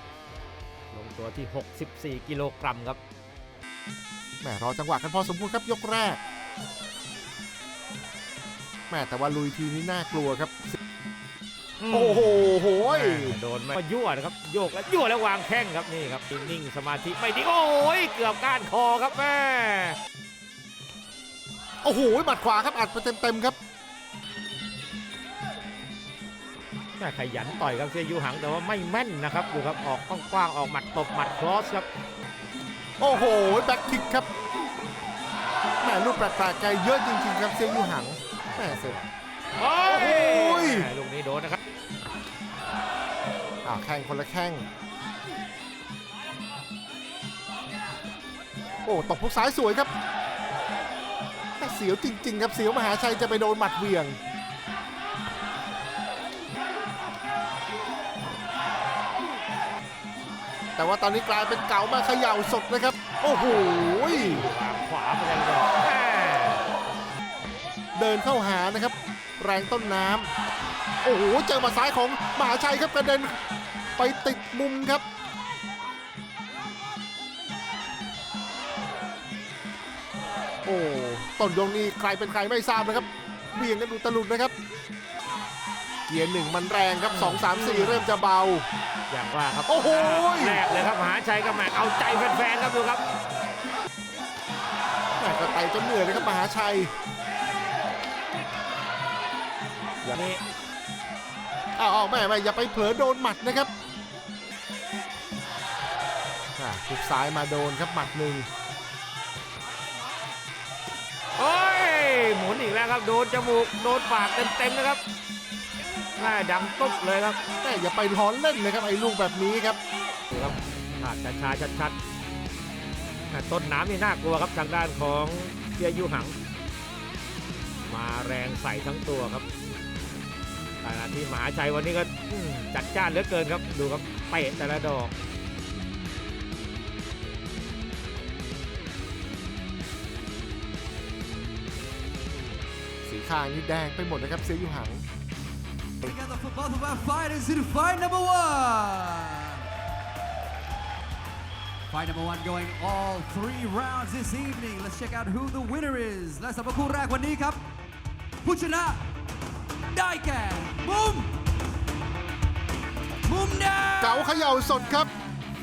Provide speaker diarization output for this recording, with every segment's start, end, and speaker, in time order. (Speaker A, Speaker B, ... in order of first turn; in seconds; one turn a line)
Speaker A: 0.9-3.0
Speaker B: 4.4-6.2
Speaker B: 8.9-10.8
Speaker A: 11.8-20.0
Speaker B: 11.9-13.4
Speaker B: 21.8-23.6
Speaker A: 27.0-31.9
Speaker B: 33.0-34.3
Speaker B: 35.8-39.1
Speaker A: 38.6-39.0
Speaker A: 39.6-41.6
Speaker B: 39.9-40.9
Speaker B: 43.6-44.7
Speaker B: 48.9-49.9
Speaker B: 51.6-54.2
Speaker B: 60.8-64.5
Speaker A: 63.7-66.6
Speaker B: 68.0-70.3
Speaker B: 71.0-73.4
Speaker B: 74.0-75.0
Speaker B: 80.7-84.5
Speaker B: 86.1-88.7
Speaker A: 87.1-88.1
Speaker A: 89.1-93.0
Speaker B: 89.7-90.7
Speaker B: 95.2-96.9
Speaker A: 100.1-100.4
Speaker B: 101.8-103.7
Speaker B: 106.5-108.5
Speaker A: 111.4-115.0
Speaker A: 116.2-117.4
Speaker B: 117.6-119.8
Speaker A: 120.3-122.0
Speaker A: 123.3-126.3
Speaker A: 127.9-129.5
Speaker A: 130.8-135.1
Speaker B: 143.0-145.0
Speaker C: 146.0-149.7
Speaker C: 151.9-157.6
Speaker C: 158.4-159.1
Speaker C: 159.9-161.3
Speaker C: 163.2-165.2
Speaker B: 164.0-165.1